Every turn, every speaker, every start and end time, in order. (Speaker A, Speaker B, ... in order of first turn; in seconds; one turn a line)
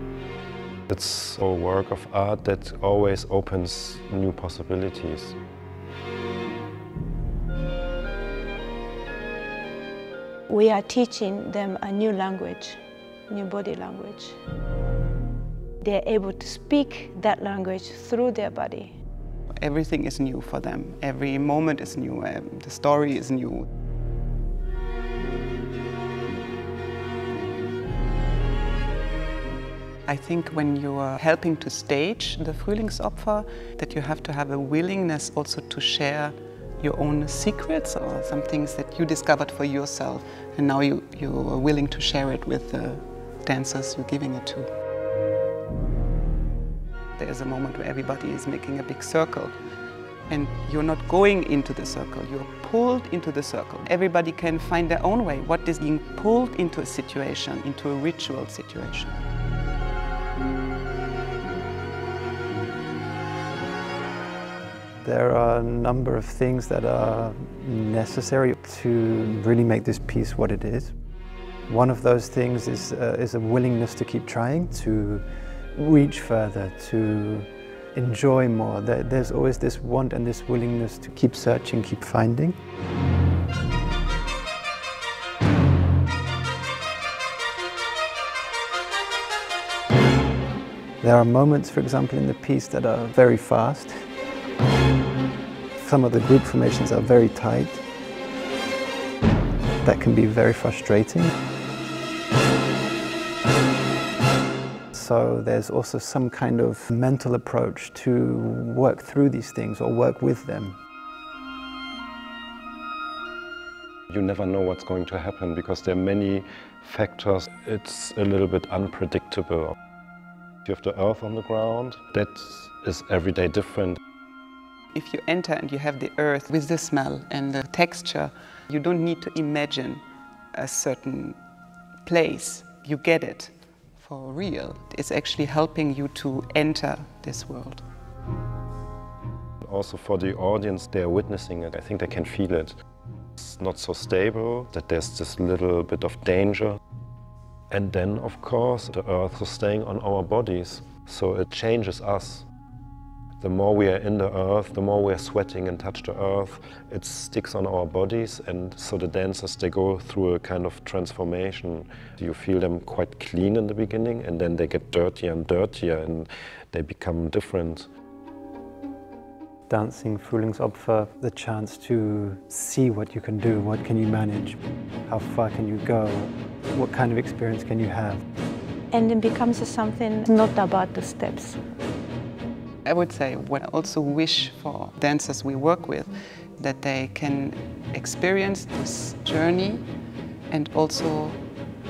Speaker A: 0.9-5.4
Speaker B: 10.5-14.4
Speaker B: 15.8-18.9
Speaker C: 19.5-23.7
Speaker C: 30.1-44.7
Speaker C: 47.1-49.5
Speaker C: 50.3-59.2
Speaker D: 65.0-70.9
Speaker D: 71.7-82.6
Speaker D: 91.0-94.1
Speaker D: 95.8-97.8
Speaker D: 99.8-101.3
Speaker D: 104.9-110.8
Speaker A: 114.1-119.7
Speaker A: 120.7-124.0
Speaker C: 124.9-131.4
Speaker C: 132.0-137.8
Speaker A: 139.6-142.8
Speaker A: 143.4-146.8
Speaker A: 147.7-152.5
Speaker A: 153.4-167.9
Speaker D: 169.7-178.2
Speaker B: 178.9-181.6
Speaker C: 182.8-189.9
Speaker C: 190.5-191.4